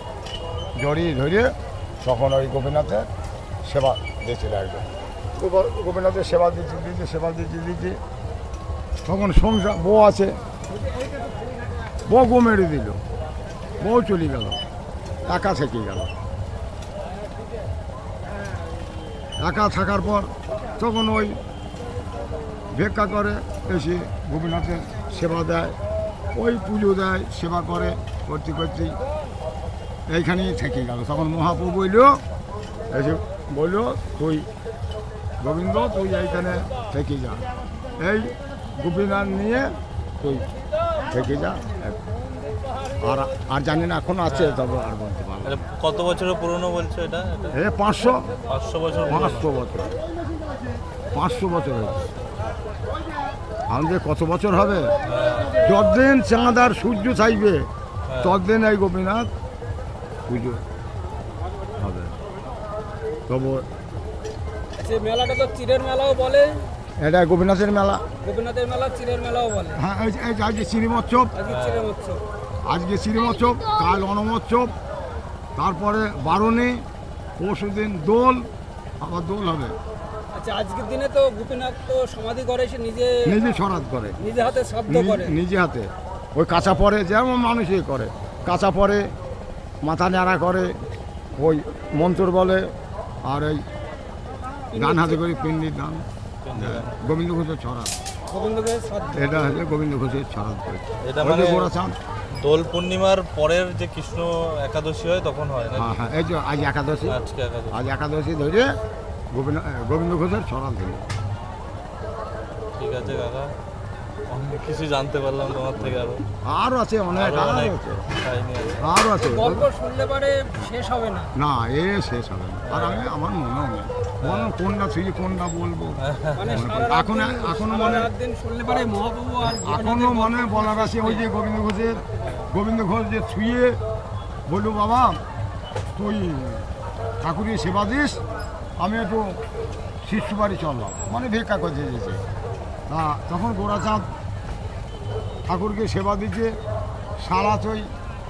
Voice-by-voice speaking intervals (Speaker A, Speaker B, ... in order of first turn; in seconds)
Speaker A: 0.8-3.1, 3.6-8.0, 9.1-10.4, 12.0-13.0, 13.8-14.6, 15.2-16.1, 19.4-21.4, 22.7-25.8, 26.3-29.0, 30.1-32.2, 32.9-34.5, 35.4-37.5, 38.0-40.5, 41.1-42.0, 43.0-45.7, 47.5-48.3, 49.1-50.0, 51.1-52.1, 53.7-54.9, 55.6-57.7, 58.2-59.3, 60.3-60.6, 61.8-62.1, 63.3-63.7, 67.0-68.0, 69.8-71.3, 72.7-74.7, 75.6-76.8, 77.4-78.5, 79.0-79.8, 83.2-84.2, 84.9-89.1, 89.8-90.7, 91.3-92.7, 93.2-93.7, 94.7-98.0, 99.1-102.0, 105.8-107.2, 107.7-108.7, 109.3-111.0, 115.7-118.0, 118.8-119.7, 121.3-128.1, 129.5-133.8, 134.5-135.2, 135.9-136.7, 137.2-138.2, 138.8-139.4, 140.0-142.2, 142.9-144.1, 145.4-146.6, 147.2-147.9
Speaker B: 44.3-44.6, 45.4-47.5, 48.5-49.5, 55.1-55.6, 58.1-58.4, 71.5-71.9, 96.4-97.0, 101.0-101.7, 102.4-106.0, 107.1-107.8, 112.8-113.5, 114.3-116.2, 117.2-118.8, 122.7-123.0, 124.2-124.5, 126.0-126.6
Speaker C: 64.8-66.6, 68.2-69.8, 71.3-72.2, 80.3-83.4, 84.2-85.4, 94.7-95.2, 98.3-99.5, 119.2-121.3, 126.4-131.3